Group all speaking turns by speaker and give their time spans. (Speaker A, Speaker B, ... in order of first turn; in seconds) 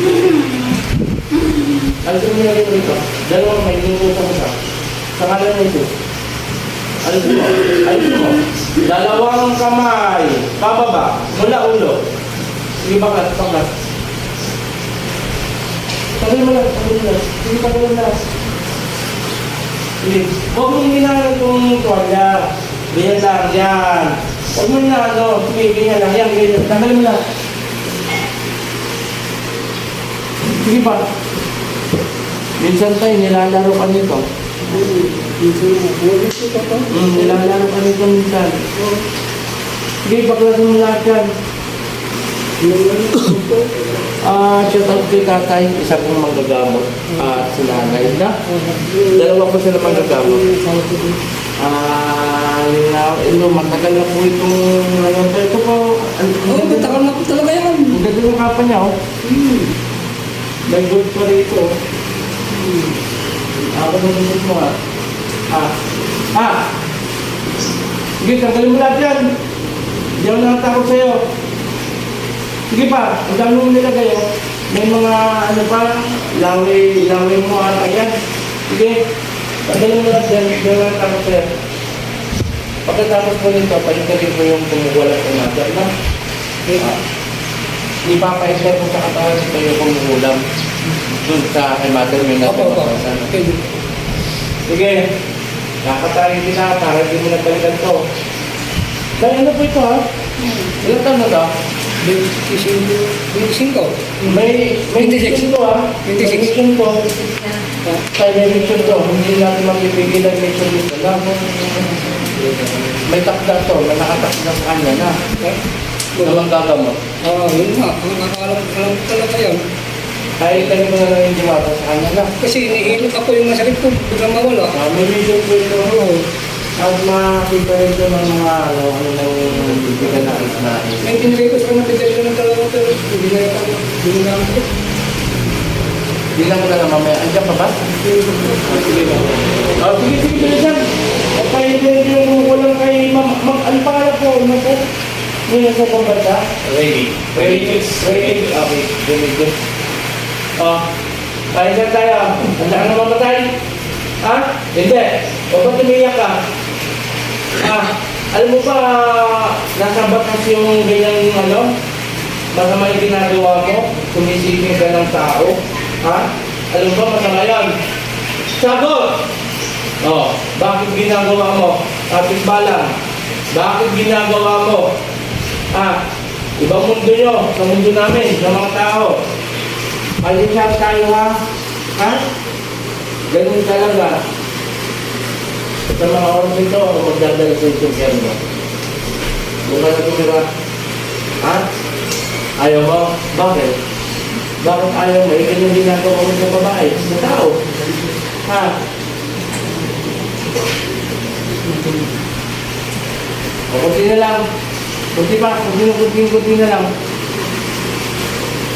Speaker A: 2.0-4.5, 5.2-5.9, 7.0-12.0, 12.8-13.7, 16.2-18.2, 20.0-27.2, 30.6-31.0, 32.6-34.2, 36.9-38.6, 40.0-41.3, 44.2-48.4, 49.1-50.4, 51.6-57.0, 57.9-59.0, 60.7-61.7, 63.6-64.7, 66.3-66.6, 68.2-69.2, 70.2-71.2, 72.7-78.1, 78.7-79.0, 79.7-81.5, 82.8-85.9, 88.0-90.4, 91.1-93.3, 94.7-95.0, 95.8-98.0, 99.2-100.0, 100.8-101.5, 104.2-107.1, 108.1-111.8, 113.0-115.2, 116.2-117.0, 120.4-122.3, 124.7-126.0, 126.8-131.3, 136.3-137.9, 139.8-140.8, 141.3-144.8, 145.5-146.5, 147.3-149.5, 150.6-150.8, 151.5-153.5, 154.2-156.4, 157.6-161.7, 162.5-167.7, 168.6-169.2, 170.0-172.9, 173.5-174.8, 176.6-179.2, 180.2-181.3, 183.3-184.2, 185.9-188.4, 189.7-190.4, 192.6-193.7, 194.6-197.6, 198.4-198.7, 203.7-204.4, 205.1-206.9
Speaker B: 34.6-37.4, 38.8-39.0, 42.6-44.0, 48.5-51.2, 56.5-58.0, 59.2-59.7, 62.5-63.0, 86.7-87.0, 92.4-93.8, 100.4-100.8, 102.0-105.5, 106.0-106.6, 116.1-116.4, 117.2-119.6, 122.4-124.7, 125.9-126.2, 131.0-134.7, 138.0-139.3, 201.7-202.1
Speaker C: 138.9-139.2, 146.6-148.6